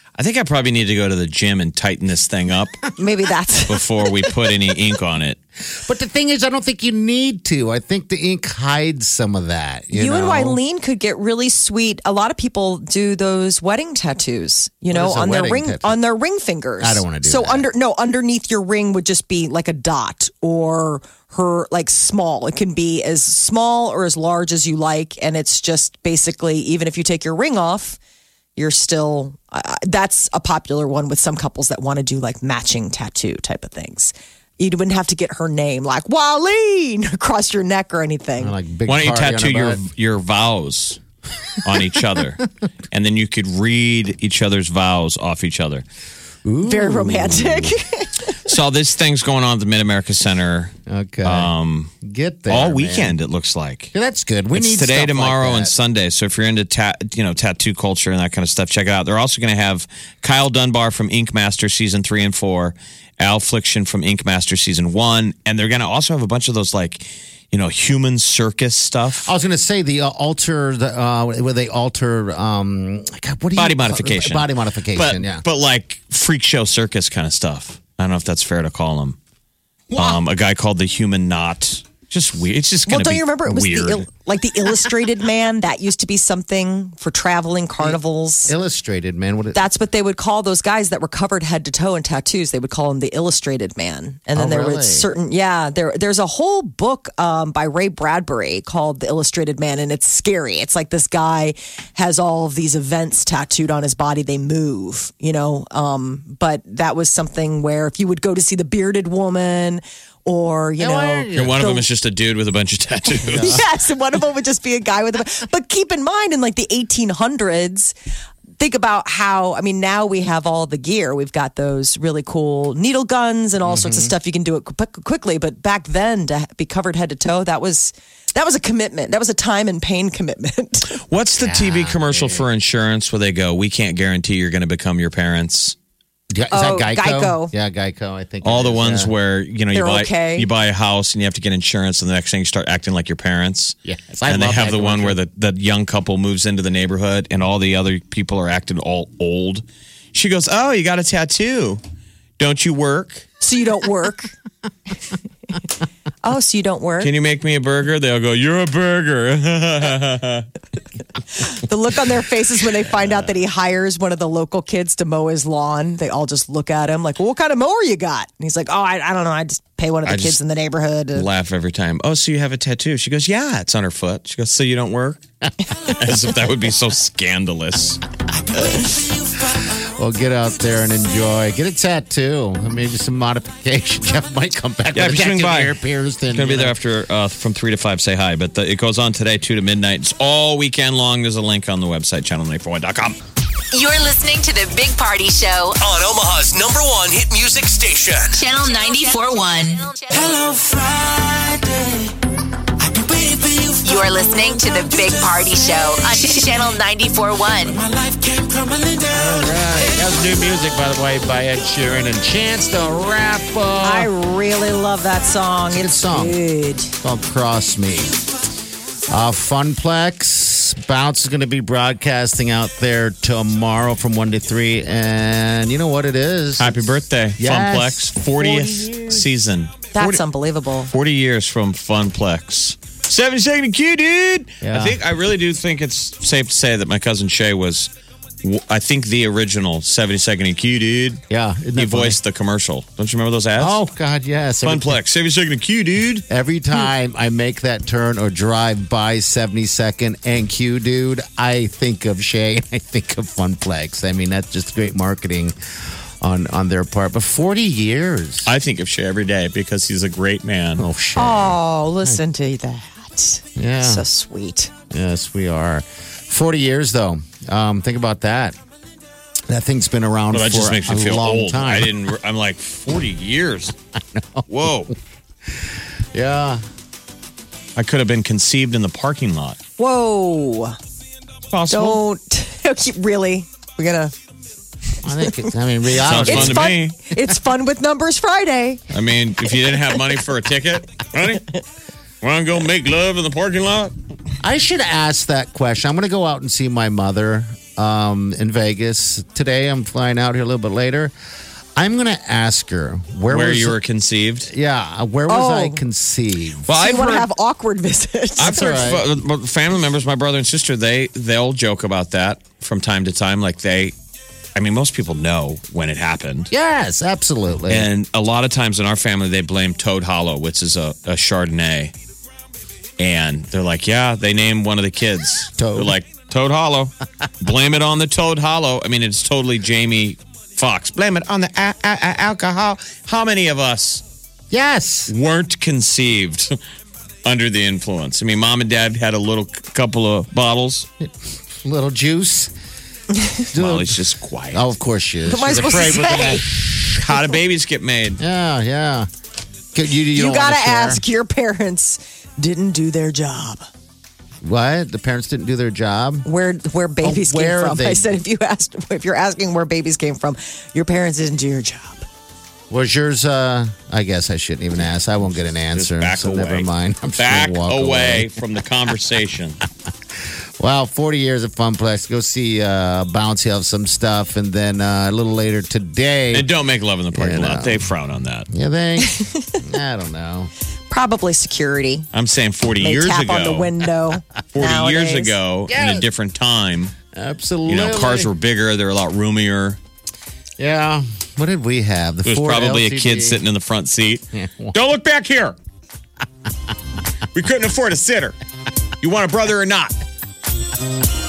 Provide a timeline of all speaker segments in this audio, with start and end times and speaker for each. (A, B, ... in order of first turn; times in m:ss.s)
0:00.2-0:02.8 A
0:03.0-0:03.8 B
0:03.7-0:05.4 A
0:05.8-0:10.6 C
0:09.9-0:28.0 B
0:14.9-0:16.0 C
0:16.8-0:17.7 C
0:28.6-0:38.6 B
0:38.4-0:39.8 C
0:38.8-0:41.0 A
0:41.6-0:45.8 A
0:46.4-0:47.8 C
0:46.6-0:48.3 B
0:48.4-0:50.7 A
0:50.9-0:51.5 C
0:51.2-0:51.9 A
0:52.0-0:53.2 C
0:52.5-0:53.9 A
0:53.9-0:55.7 C
0:54.5-1:09.3 A
1:09.2-1:15.4 C
1:13.6-1:19.2 A
1:19.9-1:20.2 C
1:20.0-1:24.1 A
1:22.8-1:28.5 B
1:27.8-1:29.7 C
1:29.5-1:51.9 B
1:34.3-1:35.1 C
1:50.8-1:51.6 C
1:51.3-1:53.6 A
1:53.2-1:57.9 B
1:53.3-1:53.6 C
1:58.6-2:11.0 B
2:03.6-2:04.1 C
2:10.9-2:15.8 A
2:11.4-2:12.4 C
2:16.3-2:19.1 C
2:16.5-2:17.5 B
2:18.4-2:23.8 A
2:19.7-2:20.5 B
2:23.8-2:25.2 C
2:24.3-2:31.8 A
2:32.4-2:33.3 A
2:33.4-2:34.3 B
2:36.2-2:37.1 B
2:37.0-2:40.5 A
2:41.3-2:51.3 B
2:50.0-2:50.4 A
2:51.1-2:55.2 A
2:55.8-2:58.0 A
2:59.8-3:06.8 C
3:04.9-3:05.8 A
3:06.3-3:13.2 A
3:13.7-3:15.8 D
3:15.8-3:18.5 E
3:18.3-3:20.4 D
3:23.8-3:27.8 D
3:29.1-3:34.1 C
3:33.8-3:36.9 B
3:35.7-3:36.4 C
3:37.0-3:38.1 C
3:39.1-3:46.8 C
3:46.6-3:50.2 A
3:47.4-3:48.9 C
3:49.9-3:50.9 B
3:50.8-3:57.9 A
3:54.6-3:55.0 C
3:58.4-4:01.2 A
4:01.3-4:02.2 C
4:01.7-4:03.8 A
4:03.6-4:05.0 C
4:04.6-4:06.2 A
4:06.3-4:15.5 C
4:16.2-4:18.5 C
4:18.4-4:20.8 A
4:20.8-4:22.2 C
4:21.2-4:24.7 B
4:23.6-4:24.0 C
4:24.9-4:28.6 C
4:29.5-4:31.9 C
4:30.3-4:33.7 A
4:34.1-4:34.4 C
4:34.5-4:34.9 A
4:36.1-4:36.6 C
4:37.8-4:39.6 A
4:39.8-4:40.8 B
4:41.5-4:42.0 A
4:41.7-4:44.1 B
4:45.0-4:46.7 C
4:46.0-4:47.1 A
4:46.2-4:48.8 B
4:48.9-4:51.6 A
4:49.5-4:49.8 B
4:52.2-4:53.9 A
4:54.4-5:01.1 C
5:01.8-5:03.8 C
5:03.3-5:04.5 A
5:04.4-5:06.7 C
5:05.3-5:05.8 B
5:06.6-5:07.3 A
5:06.7-5:08.9 B
5:08.4-5:13.9 A
5:08.4-5:09.0 C
5:14.6-5:16.5 A
5:16.5-5:17.9 C
5:17.7-5:21.9 A
5:23.0-5:34.0 A
5:25.6-5:26.0 C
5:34.5-5:35.1 C
5:35.1-5:36.5 A
5:37.2-5:40.9 A
5:41.0-5:42.5 C
5:43.5-5:46.4 C
5:43.5-5:44.7 A
5:45.2-5:46.5 B
5:46.9-5:48.2 A
5:48.2-5:49.1 C
5:49.7-5:51.0 C
5:50.1-5:53.6 B
5:54.4-5:56.3 C
5:56.2-6:02.0 B
5:57.0-5:58.1 C
6:02.7-6:08.3 C
6:05.7-6:09.6 A
6:10.6-6:16.5 C
6:16.3-6:18.5 A
6:17.1-6:17.9 C
6:18.5-6:20.5 C
6:20.9-6:22.1 B
6:22.1-6:23.7 A
6:22.8-6:25.4 B
6:24.5-6:26.9 A
6:25.7-6:26.1 C
6:27.1-6:28.3 C
6:27.6-6:29.8 A
6:30.6-6:33.4 C
6:32.2-6:35.6 A
6:34.3-6:34.7 C
6:37.3-6:38.4 A
6:39.0-6:40.0 A